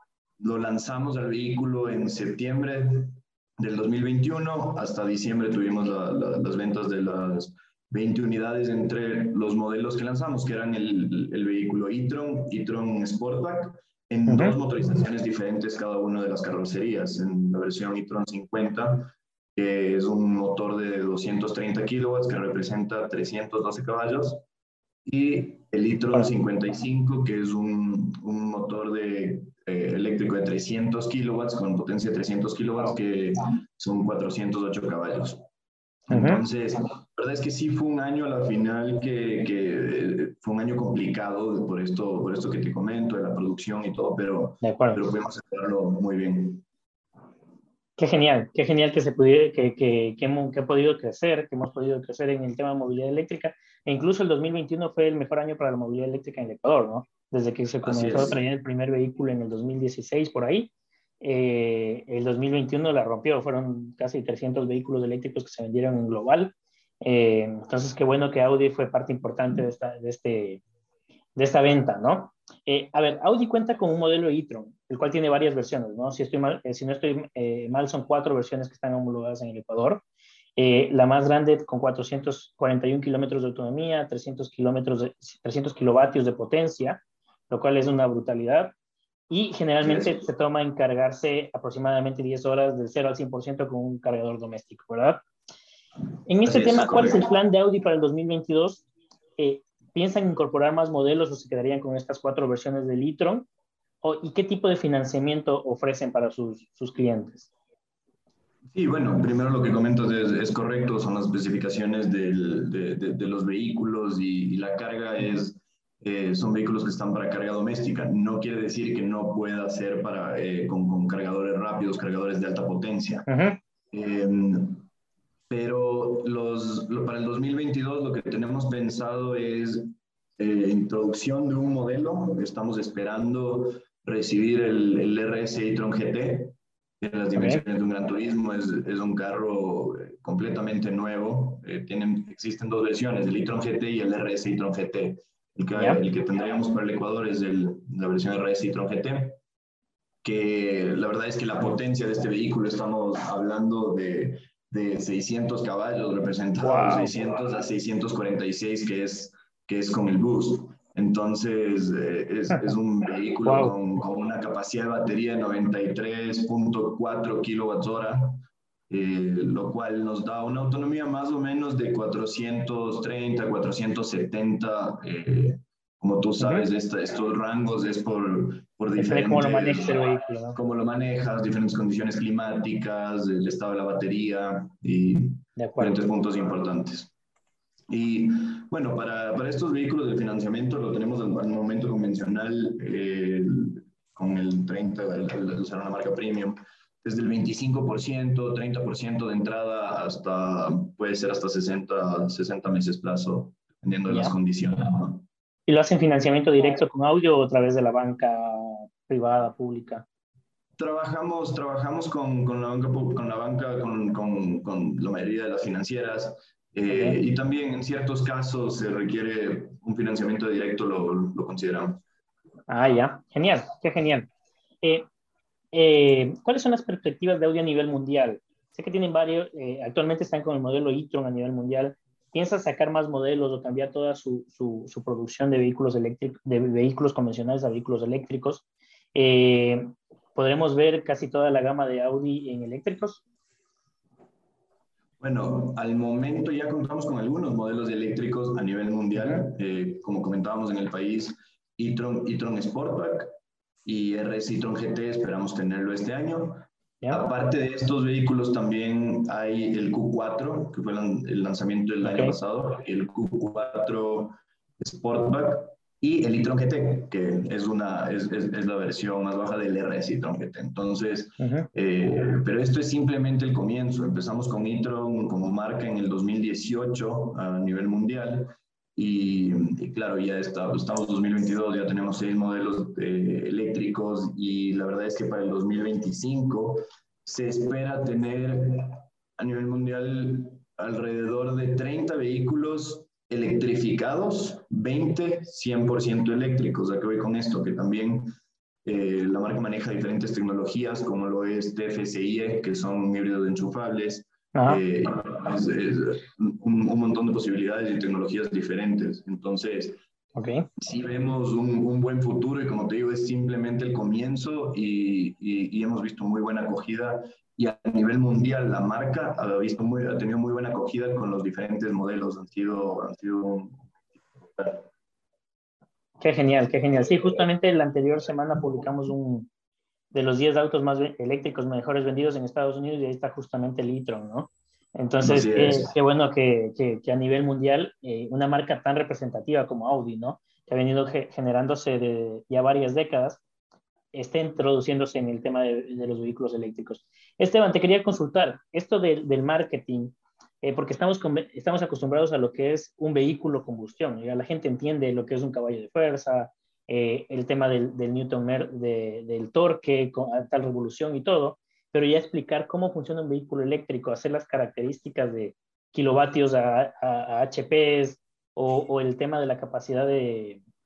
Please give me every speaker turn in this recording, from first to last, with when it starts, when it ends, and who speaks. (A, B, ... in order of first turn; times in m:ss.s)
0:00.4-0:24.4 A
0:14.3-0:14.5 B
0:25.1-0:35.4 A
0:36.1-0:46.6 A
0:36.1-0:36.4 B
0:44.6-0:45.0 B
0:48.0-1:10.6 B
0:57.8-0:58.4 A
1:11.4-1:20.0 B
1:20.6-1:28.7 B
1:29.3-1:35.2 B
1:29.8-1:30.1 A
1:36.3-1:38.8 B
1:36.4-1:37.2 A
1:39.4-1:43.5 B
1:44.0-1:47.5 B
1:48.7-2:03.3 A
2:03.3-2:03.6 B
2:03.9-2:04.9 A
2:05.5-2:29.4 A
2:17.4-2:17.6 B
2:25.8-2:26.0 B
2:30.2-3:00.0 A
2:36.6-2:37.1 B
2:43.4-2:43.7 B
2:56.4-2:56.7 B
2:59.0-3:00.6 B
3:00.5-3:07.1 A
3:05.6-3:06.0 B
3:07.9-3:25.3 A
3:24.1-3:24.4 B
3:25.7-3:30.1 B
3:30.8-3:42.0 A
3:36.9-3:37.2 B
3:42.7-3:44.3 B
3:45.7-4:03.2 B
4:05.2-4:13.3 A
4:09.2-4:09.4 B
4:13.8-4:58.3 A
4:22.0-4:22.4 B
4:31.4-4:31.7 B
4:58.8-5:10.0 A
5:04.5-5:04.8 B
5:10.4-5:10.7 B
5:10.8-5:23.9 A
5:24.4-5:24.9 A
5:26.2-5:29.5 B
5:30.1-5:43.4 B
5:35.2-5:35.9 A
5:44.1-6:10.6 B